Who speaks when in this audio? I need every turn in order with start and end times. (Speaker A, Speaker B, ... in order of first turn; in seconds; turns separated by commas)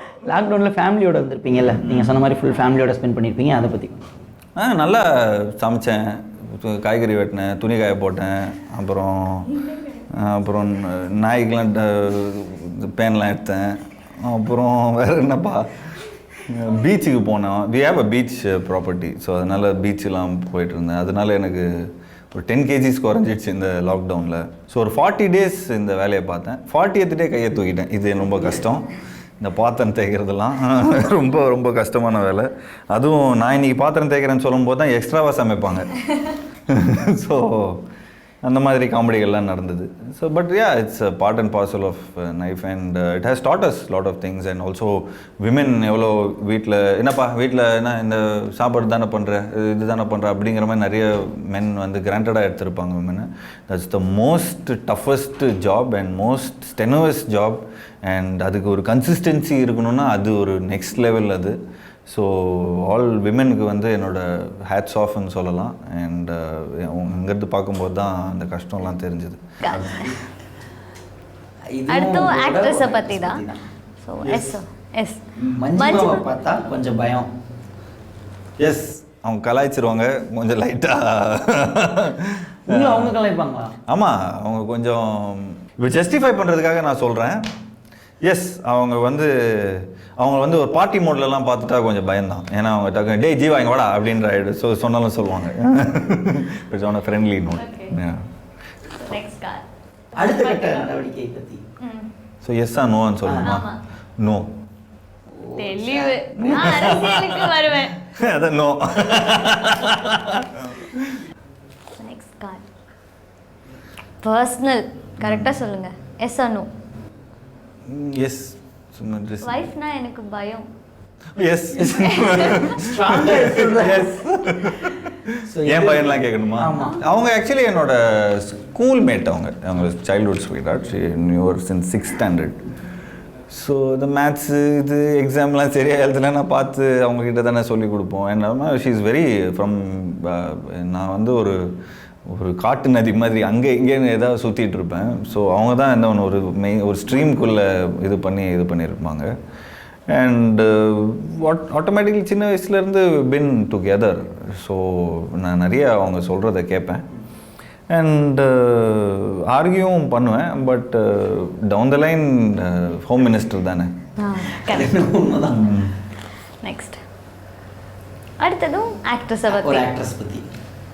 Speaker A: 0.2-4.1, Speaker B: 1.8-2.2, Speaker B: 4.6-9.6, Speaker B: 10.1-15.7, Speaker B: 16.4-35.9, Speaker B: 36.7-37.8, Speaker B: 38.4-61.6, Speaker B: 62.1-70.1, Speaker C: 69.6-70.1, Speaker A: 71.7-73.6, Speaker C: 71.9-73.4, Speaker C: 74.0-75.2, Speaker A: 74.2-74.5, Speaker A: 75.5-77.3, Speaker C: 75.8-76.2, Speaker B: 78.6-83.2, Speaker A: 82.7-83.7, Speaker B: 83.9-87.4, Speaker B: 88.2-98.2, Speaker C: 97.5-97.9, Speaker C: 98.9-99.6, Speaker A: 100.2-101.6, Speaker C: 100.2-100.8, Speaker C: 101.8-102.1, Speaker B: 102.4-104.5, Speaker A: 103.2-103.5, Speaker C: 103.4-103.8, Speaker A: 105.3-106.7, Speaker C: 105.6-108.0, Speaker B: 106.4-111.2, Speaker C: 112.0-112.6, Speaker C: 114.2-116.7, Speaker B: 115.2-115.5, Speaker B: 117.9-119.6, Speaker C: 119.4-120.7, Speaker B: 121.3-132.6, Speaker A: 121.8-124.2, Speaker C: 122.0-122.8, Speaker A: 125.4-127.0, Speaker B: 133.5-141.6, Speaker B: 142.3-149.3, Speaker B: 150.1-157.0, Speaker B: 157.9-163.9, Speaker C: 164.2-165.1, Speaker A: 164.5-165.7, Speaker B: 165.5-165.9, Speaker C: 166.6-167.0, Speaker C: 168.4-169.8, Speaker A: 169.5-170.4